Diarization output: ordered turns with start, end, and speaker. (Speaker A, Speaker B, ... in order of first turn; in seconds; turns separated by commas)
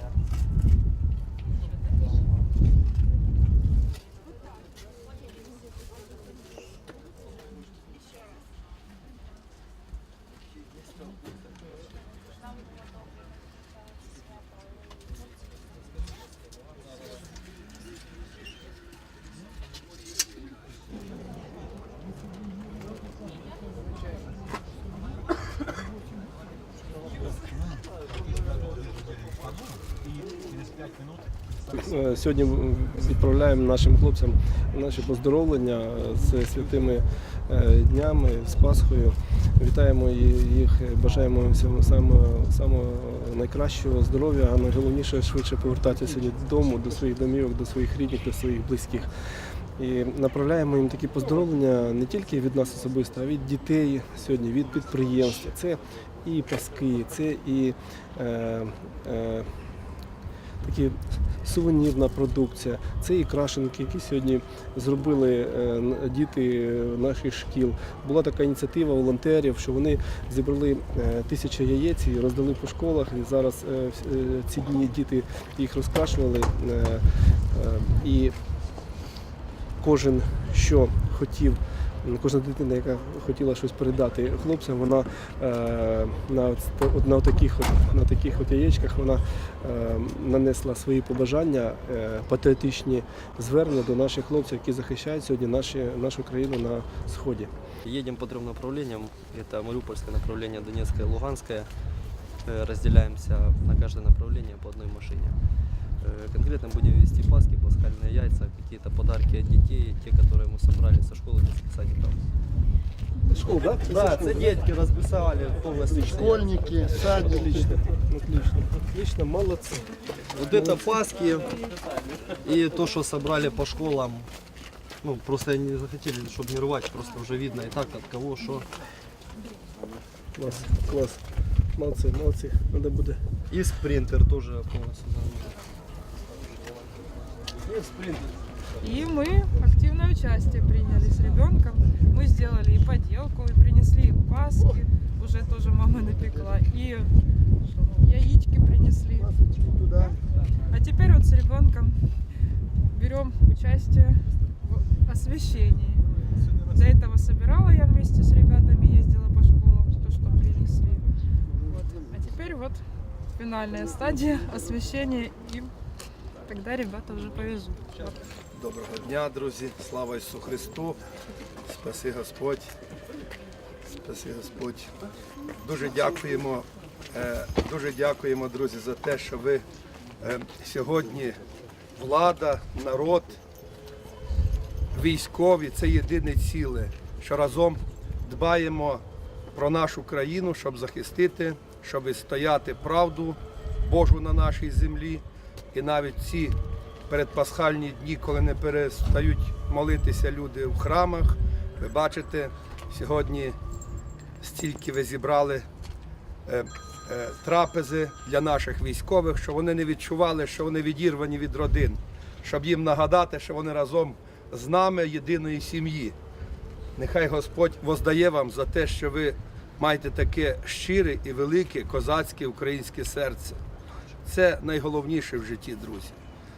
Speaker A: 31.7-49.1, Speaker A: 49.8-59.6, Speaker A: 60.6-78.3, Speaker A: 79.8-97.5, Speaker B: 97.8-101.7, Speaker B: 102.5-105.4, Speaker B: 106.0-112.2, Speaker A: 113.3-114.5, Speaker B: 113.7-117.5, Speaker A: 116.1-119.9, Speaker B: 120.3-121.5, Speaker A: 120.5-120.9, Speaker B: 122.4-124.3, Speaker B: 125.0-128.7, Speaker A: 130.4-131.2, Speaker A: 131.8-133.2, Speaker B: 133.5-135.6, Speaker B: 137.6-138.3, Speaker C: 138.8-147.1, Speaker C: 147.7-152.0, Speaker C: 152.9-156.1, Speaker C: 156.7-161.1, Speaker C: 161.6-162.8, Speaker C: 163.4-165.7, Speaker C: 166.5-168.3, Speaker D: 168.5-171.0, Speaker D: 171.6-172.7, Speaker D: 173.9-174.9, Speaker D: 175.6-179.7, Speaker D: 180.2-181.4, Speaker D: 182.0-183.4, Speaker D: 184.9-196.6, Speaker D: 197.1-203.6, Speaker D: 204.4-205.7, Speaker D: 206.5-216.2, Speaker D: 217.0-223.6, Speaker D: 224.2-226.2